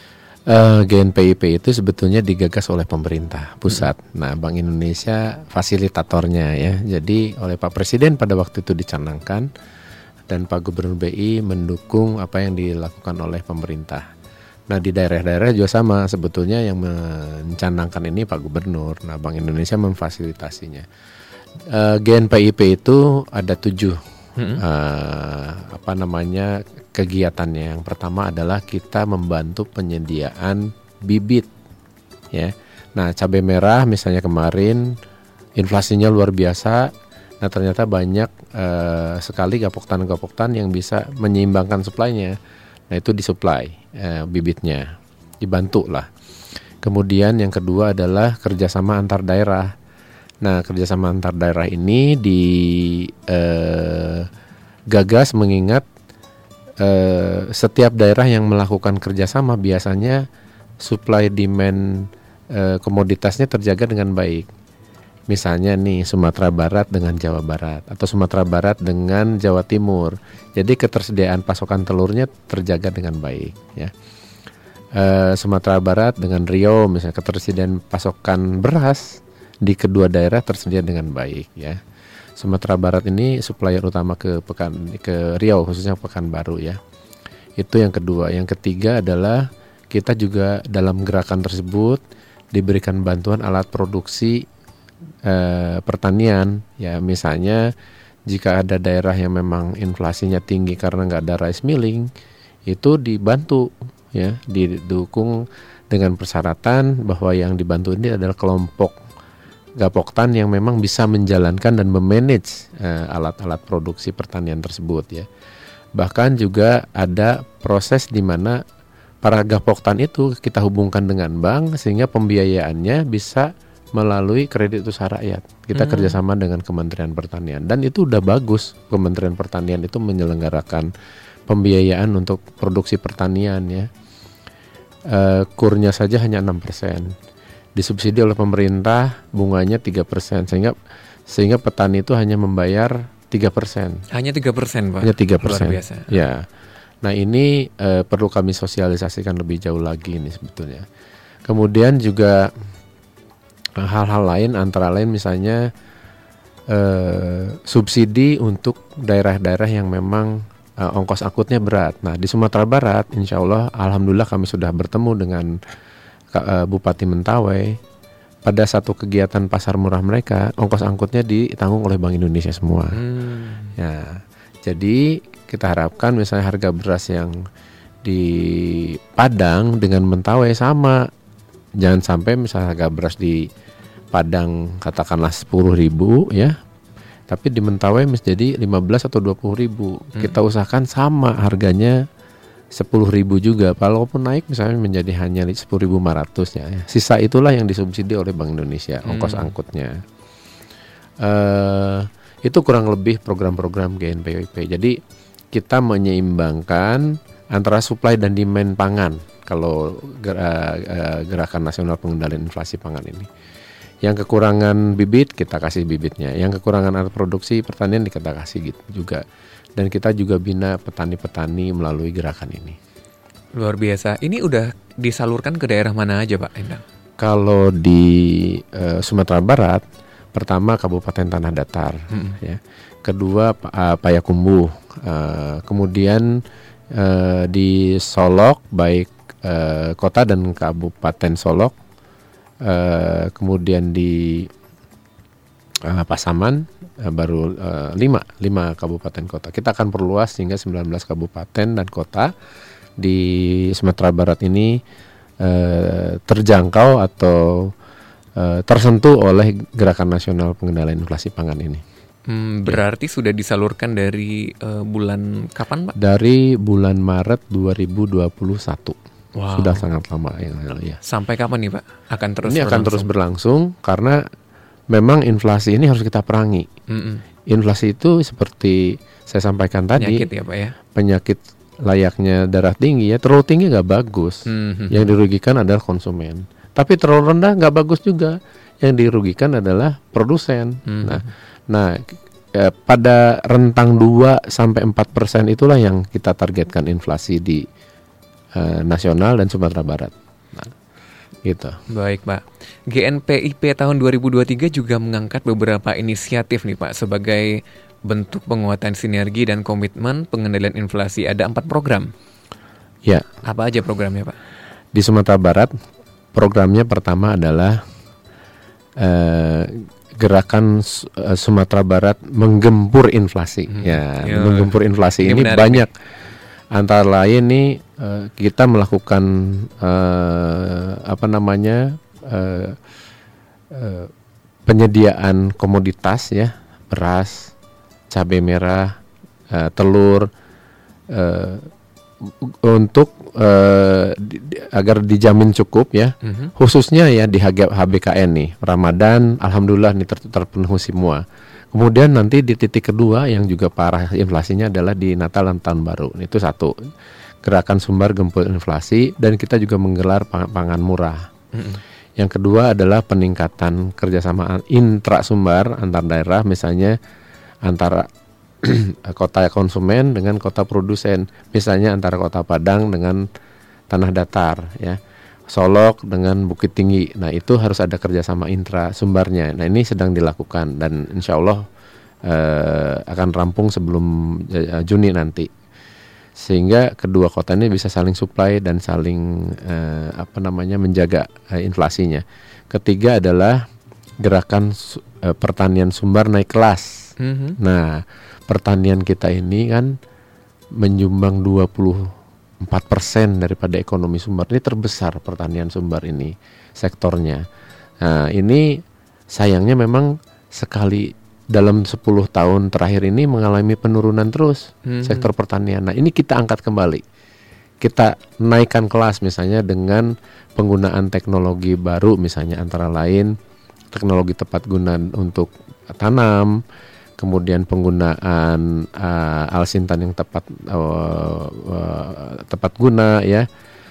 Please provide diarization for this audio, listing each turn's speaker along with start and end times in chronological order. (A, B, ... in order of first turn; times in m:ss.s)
0:00.5-0:09.5 A
0:10.3-0:14.1 A
0:14.7-0:20.9 A
0:21.7-0:24.0 A
0:24.4-0:24.6 B
0:24.6-0:31.5 A
0:32.3-0:35.0 A
0:35.6-0:42.4 A
0:42.9-0:46.1 A
0:46.8-0:49.7 A
0:50.4-0:54.3 A
0:54.9-0:55.9 A
0:56.8-1:00.3 A
1:00.8-1:04.5 A
1:05.3-1:13.9 A
1:15.0-1:21.8 A
1:22.4-1:26.8 A
1:27.6-1:32.0 A
1:32.5-1:34.5 A
1:35.3-1:37.7 A
1:38.3-1:42.1 A
1:42.7-1:49.0 A
1:49.8-1:55.3 A
1:56.0-1:58.6 A
1:59.2-2:10.9 A
2:05.8-2:06.2 B
2:11.5-2:13.9 A
2:15.1-2:17.1 A
2:17.8-2:20.8 A
2:21.3-2:24.0 A
2:24.1-2:26.1 B
2:25.0-2:26.5 A
2:27.0-2:30.9 A
2:31.5-2:32.5 A
2:33.8-2:35.7 A
2:36.7-2:45.6 A
2:46.3-2:47.8 A
2:48.5-2:53.0 A
2:53.0-2:53.7 B
2:53.8-2:57.4 A
2:58.0-3:01.0 A
3:01.8-3:03.5 A
3:04.1-3:06.6 A
3:07.3-3:12.0 A
3:12.7-3:20.0 A
3:19.1-3:19.5 B
3:21.2-3:25.0 A
3:25.5-3:33.3 A
3:34.0-3:39.2 A
3:39.8-3:42.8 A
3:43.6-3:46.8 B
3:47.2-3:49.8 A
3:50.3-3:56.4 A
3:52.1-3:52.4 B
3:56.9-4:01.8 A
4:02.6-4:04.5 A
4:05.8-4:12.3 A
4:13.0-4:14.8 A
4:15.4-4:17.7 A
4:18.4-4:21.8 A
4:22.3-4:26.0 B
4:26.0-4:29.0 A
4:29.4-4:29.9 B
4:29.5-4:31.0 A
4:31.0-4:33.1 B
4:32.4-4:34.2 A
4:34.9-4:36.7 A
4:36.9-4:37.2 B
4:37.5-4:40.3 A
4:40.0-4:40.8 B
4:40.9-4:57.7 A
4:44.5-4:45.1 B
4:50.9-4:51.3 B
4:58.6-5:00.7 A
5:01.4-5:01.8 A
5:01.9-5:07.6 B
5:08.1-5:12.1 B
5:13.4-5:14.4 B
5:14.9-5:15.7 A
5:16.3-5:17.8 A
5:19.0-5:25.9 A
5:23.7-5:25.9 B
5:26.7-5:32.8 A
5:33.7-5:34.1 A
5:34.7-5:37.5 A
5:38.1-5:39.0 A
5:39.5-5:40.3 A
5:41.1-5:41.7 A
5:42.2-5:56.8 A
5:46.2-5:46.5 B
5:57.4-6:01.3 A
6:01.5-6:01.8 B
6:02.2-6:07.0 A
6:07.6-6:08.1 A
6:08.6-6:13.2 A
6:13.9-6:21.6 A
6:22.3-6:25.5 A
6:26.4-6:33.6 A
6:34.2-6:40.0 A
6:37.2-6:37.6 B
6:40.8-6:47.4 A
6:48.0-6:48.8 A
6:49.3-6:57.0 A
6:54.9-6:55.3 B
6:57.8-7:03.3 A
7:03.9-7:06.6 A
7:07.2-7:13.5 A